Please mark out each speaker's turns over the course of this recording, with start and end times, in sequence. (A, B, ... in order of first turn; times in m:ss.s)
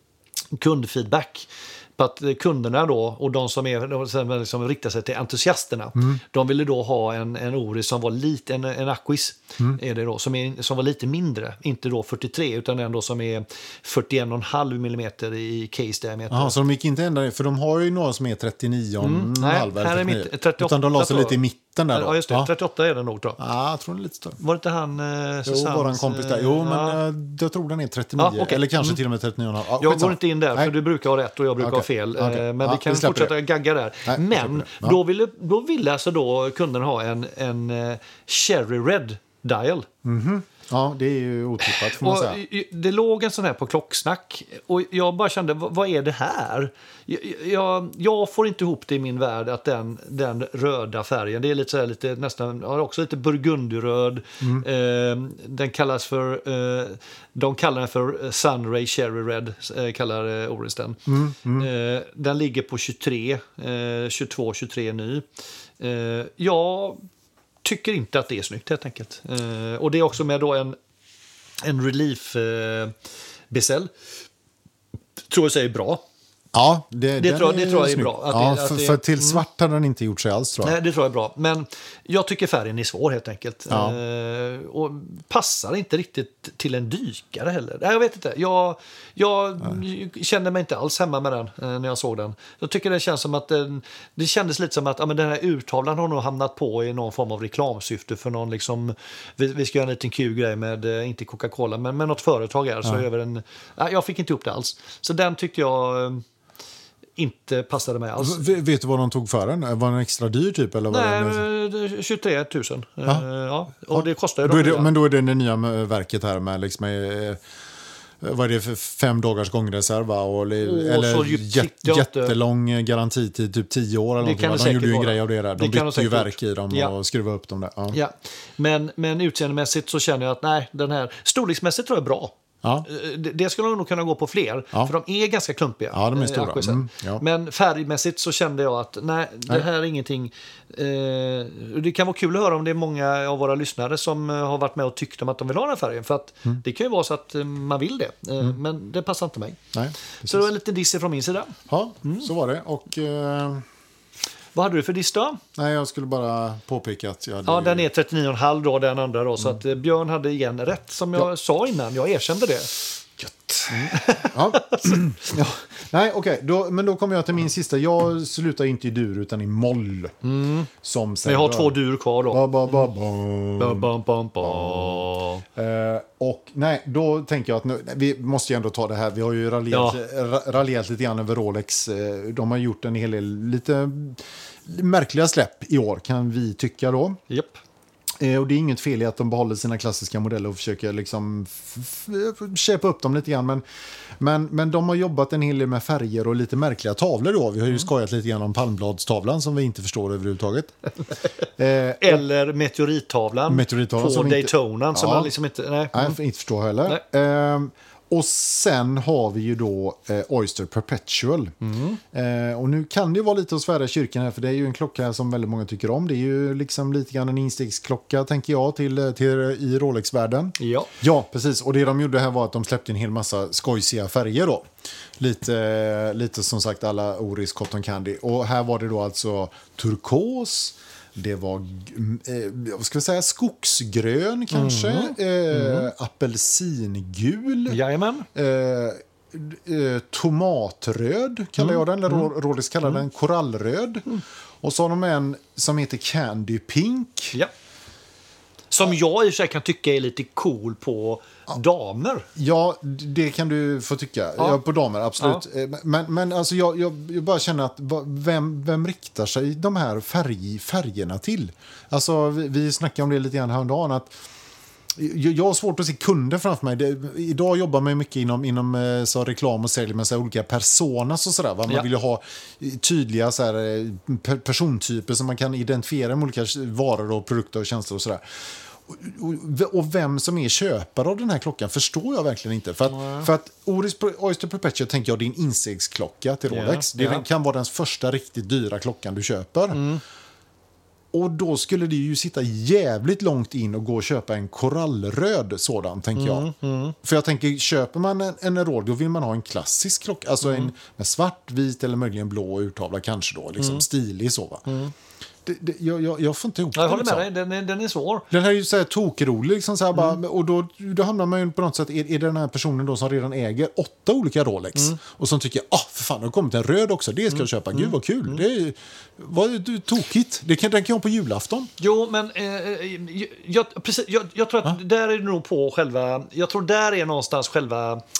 0:00.6-0:16.6 A
0:16.3-0:22.5 B
0:19.0-0:21.4 A
0:21.9-0:23.4 A
0:23.4-0:24.4 B
0:24.4-0:27.0 A
0:25.4-0:30.7 B
0:28.2-0:29.0 A
0:29.8-0:39.9 A
0:31.6-0:33.3 B
0:34.0-0:35.0 B
0:40.0-0:42.4 B
0:41.6-1:05.2 A
1:01.1-1:01.7 B
1:05.8-1:07.0 A
1:07.6-1:10.8 A
1:11.6-1:12.9 A
1:13.5-1:13.9 A
1:15.3-1:16.0 A
1:16.5-1:20.8 B
1:17.2-1:19.4 A
1:20.6-1:46.2 A
1:23.7-1:24.0 B
1:47.2-1:48.4 A
1:48.2-1:51.4 B
1:50.9-1:54.9 A
1:53.9-1:57.4 B
1:58.2-2:08.0 B
2:00.6-2:02.3 A
2:04.2-2:06.9 A
2:07.9-2:29.6 A
2:15.9-2:17.2 B
2:29.7-2:30.5 B
2:30.2-2:32.3 A
2:31.7-2:33.6 B
2:34.5-2:35.4 A
2:35.6-2:37.9 B
2:37.4-2:42.7 A
2:43.2-2:50.2 B
2:43.7-2:45.0 A
2:50.2-2:50.7 A
2:50.8-2:51.8 B
2:51.2-2:52.7 A
2:52.3-3:07.2 B
2:53.6-2:55.4 A
2:59.7-3:00.0 A
3:07.3-3:07.6 A
3:08.2-3:13.6 B
3:14.2-3:20.7 B
3:21.6-3:22.2 B
3:22.0-3:26.2 A
3:23.5-3:25.3 B
3:25.9-3:31.5 B
3:31.6-3:32.0 A
3:32.1-3:44.6 B
3:40.6-3:40.9 A
3:45.2-3:57.8 B
3:54.5-3:55.9 A
3:57.7-3:58.3 A
3:58.3-4:04.0 B
4:01.6-4:02.3 A
4:04.6-4:07.3 B
4:08.7-4:12.3 A
4:12.4-4:24.1 B
4:24.9-4:38.2 B
4:38.8-4:49.8 B
4:42.9-4:43.3 A
4:46.5-4:47.2 A
4:49.7-4:50.0 A
4:51.1-4:56.5 B
4:56.1-4:57.0 A
4:57.0-5:04.6 B
5:00.4-5:00.7 A
5:04.6-5:04.9 A
5:05.4-5:07.3 B
5:06.7-5:08.3 A
5:08.3-5:21.7 B
5:17.7-5:18.4 A
5:21.8-5:28.0 A